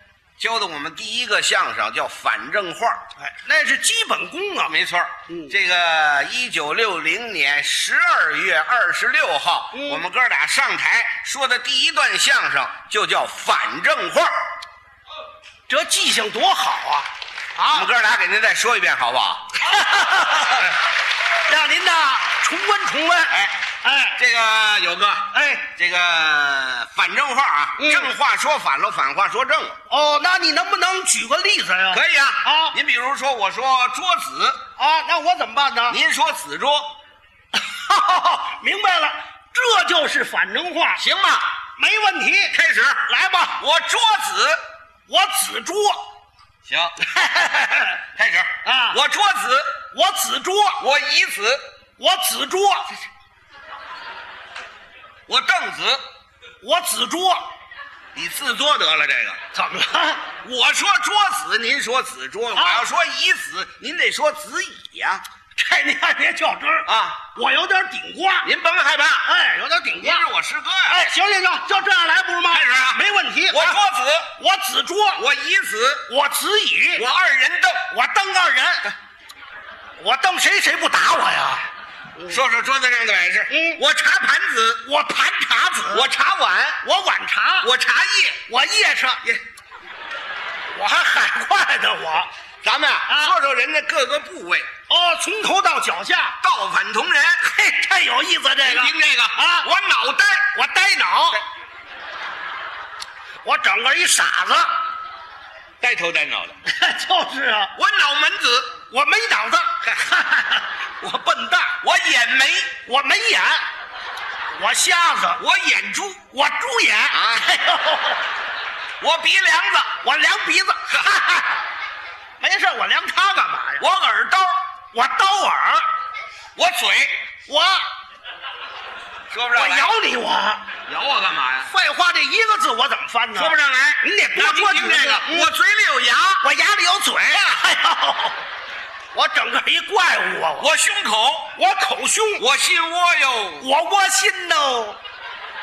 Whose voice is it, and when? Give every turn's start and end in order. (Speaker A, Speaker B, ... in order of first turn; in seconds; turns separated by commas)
Speaker A: 0.4-3.0, Speaker B: 3.2-4.7, Speaker A: 4.6-14.3, Speaker B: 5.3-5.5, Speaker B: 9.7-10.0, Speaker B: 15.7-17.9, Speaker A: 17.7-19.6, Speaker B: 19.6-20.7, Speaker B: 21.5-23.3, Speaker A: 23.3-23.6, Speaker B: 23.8-24.2, Speaker A: 24.2-29.8, Speaker B: 25.3-25.6, Speaker B: 27.8-28.1, Speaker B: 29.9-32.7, Speaker A: 31.9-34.6, Speaker B: 34.8-36.0, Speaker A: 35.9-36.9, Speaker B: 37.5-41.0, Speaker A: 41.0-41.5, Speaker B: 41.8-42.5, Speaker A: 42.5-43.0, Speaker B: 43.0-43.6, Speaker A: 43.6-44.6, Speaker B: 45.1-46.0, Speaker A: 46.6-47.0, Speaker B: 47.1-48.0, Speaker A: 48.1-49.7, Speaker B: 48.6-49.0, Speaker B: 49.9-50.8, Speaker A: 50.8-51.6, Speaker B: 52.0-53.0, Speaker A: 55.3-56.0, Speaker B: 56.6-57.5, Speaker A: 58.1-59.4, Speaker B: 59.5-60.2, Speaker A: 60.4-65.2, Speaker B: 62.5-62.8, Speaker B: 65.5-68.5, Speaker A: 66.9-67.2, Speaker A: 68.4-69.3, Speaker B: 69.2-70.2, Speaker A: 70.0-71.0, Speaker B: 70.9-73.8, Speaker A: 72.5-74.3, Speaker B: 74.4-75.2, Speaker A: 75.2-76.1, Speaker B: 76.1-77.0, Speaker A: 77.0-77.9, Speaker B: 77.9-78.8, Speaker B: 80.0-81.6, Speaker A: 82.3-84.8, Speaker B: 83.5-83.8, Speaker B: 84.8-86.1, Speaker A: 85.9-86.8, Speaker B: 86.8-87.7, Speaker A: 87.6-88.4, Speaker B: 88.5-89.2, Speaker B: 90.7-92.3, Speaker A: 92.6-94.7, Speaker B: 93.1-93.3, Speaker B: 94.9-96.4, Speaker A: 96.4-97.4, Speaker B: 97.4-99.7, Speaker A: 98.6-100.5, Speaker B: 100.5-101.4, Speaker B: 103.4-104.8, Speaker A: 105.8-106.6, Speaker B: 106.7-107.7, Speaker A: 107.7-108.7, Speaker B: 108.9-111.7, Speaker A: 111.8-112.7, Speaker B: 112.8-113.6, Speaker B: 114.6-115.4, Speaker A: 115.4-116.2, Speaker B: 116.3-118.2, Speaker A: 117.1-117.5, Speaker A: 119.0-120.0, Speaker B: 120.0-121.6, Speaker B: 122.4-123.8, Speaker A: 123.8-124.5, Speaker B: 124.9-125.8, Speaker A: 126.5-127.1, Speaker B: 127.5-127.9, Speaker A: 129.3-129.9, Speaker B: 129.5-130.6, Speaker A: 130.9-131.7, Speaker B: 131.7-135.5, Speaker A: 133.3-136.4, Speaker B: 136.4-138.4, Speaker B: 139.1-140.7, Speaker A: 140.6-141.5, Speaker B: 141.6-142.4, Speaker A: 142.4-143.7, Speaker B: 143.6-145.0